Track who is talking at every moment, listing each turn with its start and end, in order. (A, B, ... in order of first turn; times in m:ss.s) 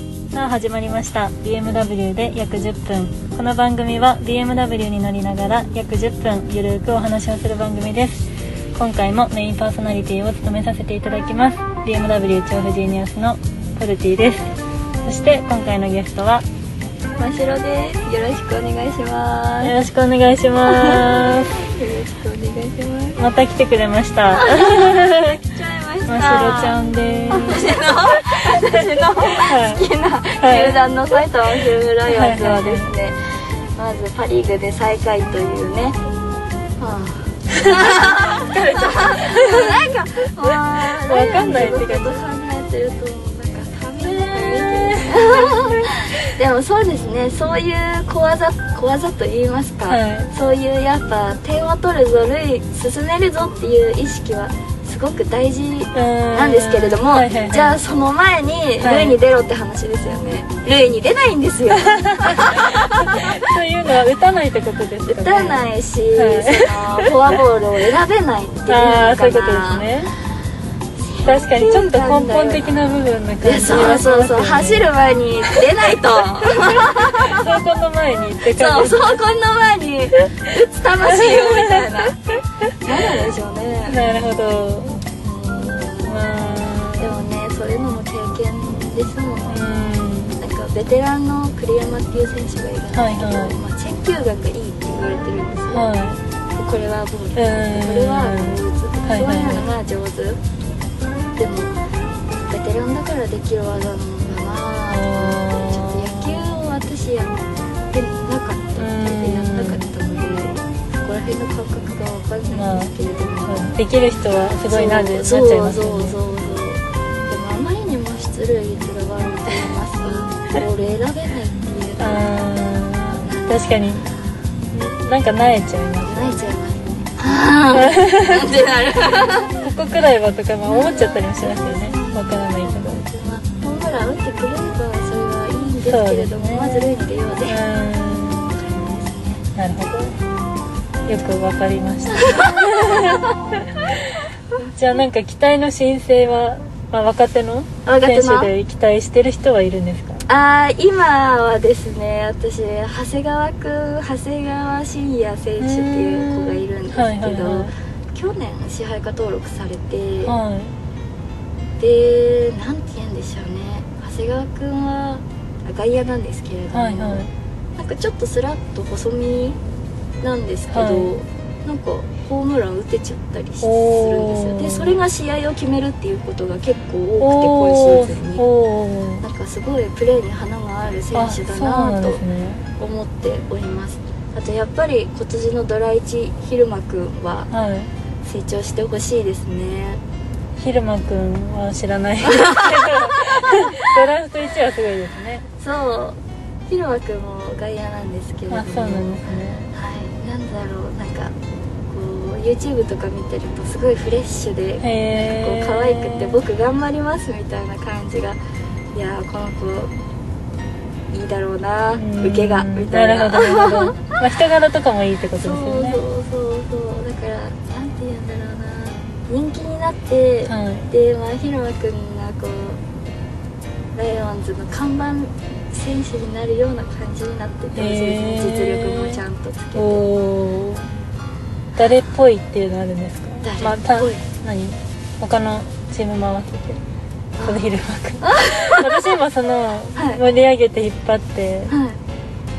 0:00.3-0:14.5 A
0:15.0-0:16.4 A
0:17.2-0:19.7 B
0:19.6-0:21.6 A
0:20.6-0:23.2 B
0:23.2-0:25.5 A
0:24.3-0:36.0 B
0:26.1-0:27.9 A
0:29.4-0:29.9 A
0:30.4-0:30.8 A
0:32.0-0:32.9 A
0:36.8-1:03.2 B
0:38.5-0:39.8 A
0:41.0-0:42.2 A
0:44.0-0:45.8 A
0:49.9-0:50.3 A
0:55.9-0:57.8 A
0:58.8-0:59.2 A
1:01.8-1:07.3 A
1:05.1-1:09.9 B
1:08.7-1:10.1 A
1:11.0-1:12.8 B
1:11.2-1:14.9 A
1:13.4-1:17.4 B
1:16.7-1:19.1 A
1:18.4-1:24.0 B
1:21.2-1:21.8 A
1:23.9-1:25.0 A
1:25.2-1:26.3 B
1:26.0-1:27.2 A
1:27.0-1:29.7 B
1:29.5-1:30.4 A
1:30.4-1:35.9 B
1:32.9-1:33.6 A
1:35.7-1:36.2 A
1:36.6-1:40.4 B
1:37.4-1:39.7 A
1:41.4-1:41.8 B
1:42.3-1:53.7 B
1:44.9-1:46.5 A
1:48.8-1:49.9 A
1:52.5-1:52.9 A
1:53.4-1:56.2 A
1:54.7-2:02.3 B
2:02.0-2:04.1 A
2:03.2-2:04.3 B
2:04.7-2:06.4 A
2:06.0-2:09.6 B
2:07.7-2:08.5 A
2:09.6-2:13.0 A
2:10.6-2:17.6 B
2:15.8-2:18.7 A
2:18.5-2:19.4 B
2:19.5-2:20.2 A
2:21.0-2:24.1 A
2:22.1-2:23.8 B
2:24.6-2:30.2 A
2:27.8-2:28.5 B
2:30.3-2:40.4 B
2:35.6-2:37.7 A
2:40.2-2:40.7 A
2:41.8-2:47.2 B
2:46.7-2:47.3 A
2:47.8-2:49.6 B
2:50.2-2:58.4 B
2:50.7-2:51.1 A
2:53.6-2:55.0 A
2:57.2-2:59.2 A
2:59.2-3:02.2 B
3:01.1-3:02.6 A
3:02.8-3:07.5 B
3:07.5-3:07.9 A
3:08.2-3:10.0 B
3:10.6-3:15.4 A
3:12.2-3:13.9 B
3:15.6-3:21.3 B
3:18.5-3:19.7 A
3:21.9-3:28.4 B
3:24.8-3:26.4 A
3:28.9-3:29.9 B
3:31.1-3:34.2 B
3:31.9-3:36.0 A
3:35.4-3:42.8 B
3:40.4-3:40.9 A
3:43.9-3:50.1 B
3:47.7-3:49.2 A
3:49.7-3:50.9 A
3:51.8-3:56.8 A
3:53.4-3:54.2 B
3:57.4-3:57.7 B
3:57.4-4:01.7 A
3:58.2-3:59.1 B
3:59.9-4:00.2 B
4:01.7-4:02.0 B